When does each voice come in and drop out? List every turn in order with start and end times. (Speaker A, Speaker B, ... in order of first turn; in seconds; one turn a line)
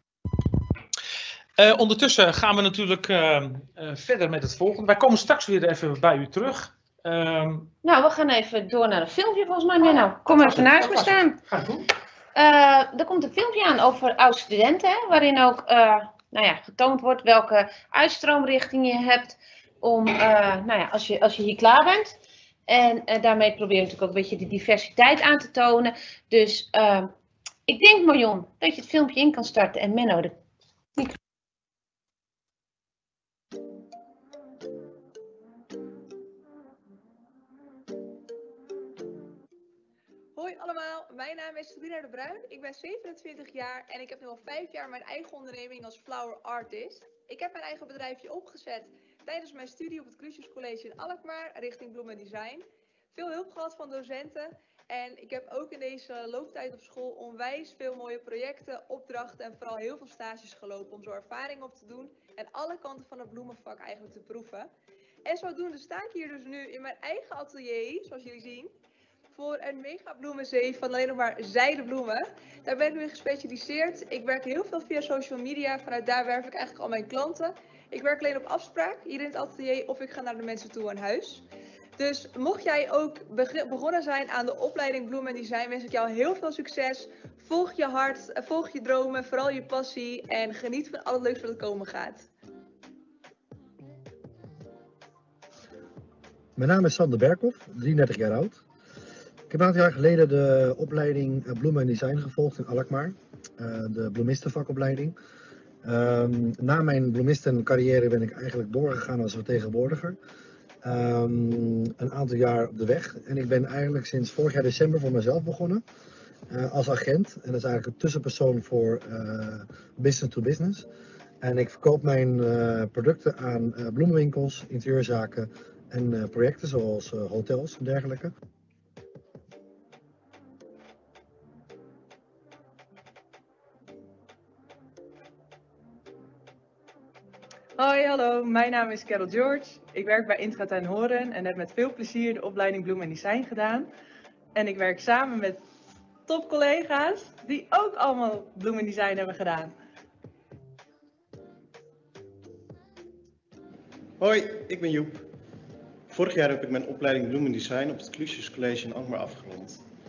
Speaker A: 1.6-7.7
Speaker B: 7.8-11.4
Speaker A: 10.3-11.9
Speaker B: 12.3-22.1
Speaker B: 22.7-27.1
Speaker B: 27.7-30.3
Speaker C: 40.4-64.7
Speaker C: 65.2-68.7
Speaker C: 69.3-81.5
Speaker C: 82.0-92.2
Speaker D: 96.6-98.6
Speaker D: 99.5-105.2
Speaker D: 105.8-110.2
Speaker D: 110.8-115.8
Speaker D: 116.5-120.9
Speaker D: 121.4-128.3
Speaker E: 137.8-143.9
Speaker E: 144.6-145.6
Speaker E: 146.3-149.7
Speaker F: 154.2-155.3
Speaker F: 156.1-159.8